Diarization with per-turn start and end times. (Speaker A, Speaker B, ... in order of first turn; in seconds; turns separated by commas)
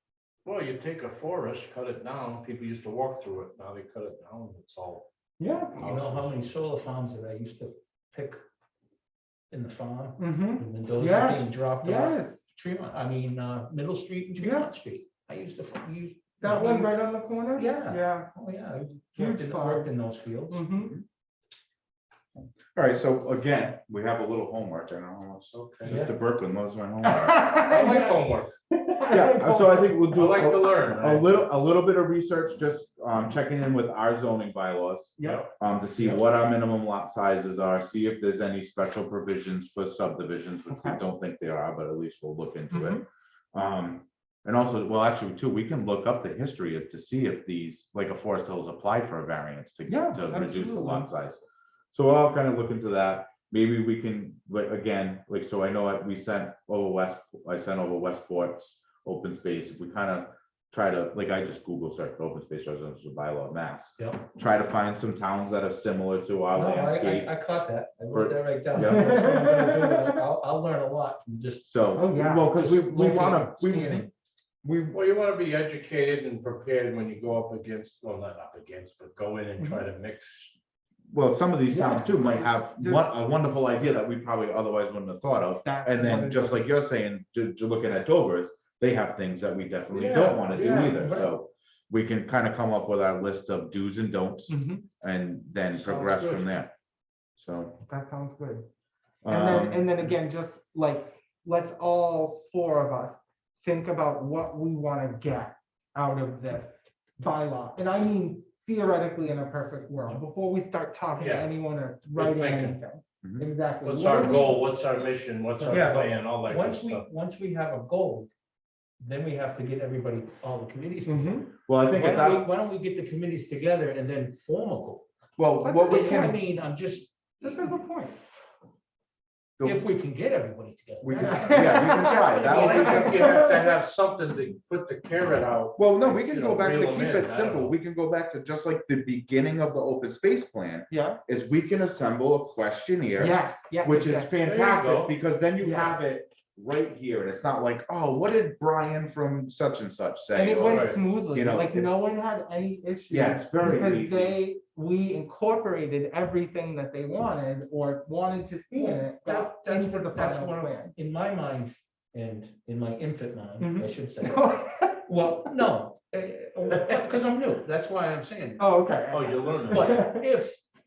Speaker A: 0.4-5.0, Speaker B: 5.4-6.2, Speaker C: 5.8-8.4, Speaker C: 9.5-16.9, Speaker B: 10.2-12.4, Speaker B: 14.4-14.7, Speaker B: 16.4-18.3, Speaker C: 17.6-20.7, Speaker B: 19.1-19.9, Speaker B: 20.5-20.9, Speaker D: 22.7-27.5, Speaker A: 25.5-26.0, Speaker C: 25.9-26.1, Speaker B: 27.0-28.2, Speaker A: 27.6-28.5, Speaker B: 28.7-30.0, Speaker D: 29.1-51.4, Speaker A: 30.1-31.3, Speaker A: 35.2-35.5, Speaker B: 40.7-41.0, Speaker B: 42.7-43.0, Speaker B: 49.9-51.1, Speaker D: 51.9-67.3, Speaker C: 64.0-64.2, Speaker C: 66.5-71.7, Speaker D: 68.1-69.1, Speaker B: 68.8-70.2, Speaker D: 71.7-74.1, Speaker B: 71.9-72.9, Speaker C: 72.5-74.1, Speaker D: 74.6-75.0, Speaker A: 74.9-80.5, Speaker B: 79.6-79.8, Speaker D: 81.1-96.7, Speaker B: 81.7-83.1, Speaker B: 85.6-86.7, Speaker A: 89.9-91.3, Speaker B: 94.5-94.8, Speaker A: 95.8-96.5, Speaker D: 97.4-97.8, Speaker B: 97.8-98.7, Speaker D: 99.2-100.0, Speaker B: 99.2-114.7, Speaker A: 111.2-111.5, Speaker A: 112.1-112.8, Speaker A: 113.8-117.0, Speaker B: 115.6-115.9, Speaker C: 115.7-118.3, Speaker C: 119.0-125.0, Speaker B: 121.0-122.3, Speaker D: 121.7-122.4, Speaker D: 125.4-126.4, Speaker B: 125.6-126.4, Speaker C: 125.8-127.7, Speaker B: 127.4-128.2, Speaker D: 129.6-129.8, Speaker C: 129.6-133.4, Speaker D: 131.0-133.2, Speaker B: 131.1-133.7, Speaker A: 132.4-137.7, Speaker D: 135.8-151.9, Speaker B: 140.9-141.2, Speaker B: 143.2-144.3, Speaker A: 144.4-145.1, Speaker B: 145.6-146.0, Speaker B: 150.3-160.9, Speaker A: 150.6-151.0, Speaker D: 153.1-154.3, Speaker C: 158.7-168.7, Speaker B: 163.6-165.1, Speaker B: 168.6-170.2, Speaker A: 169.1-170.1, Speaker C: 169.7-170.6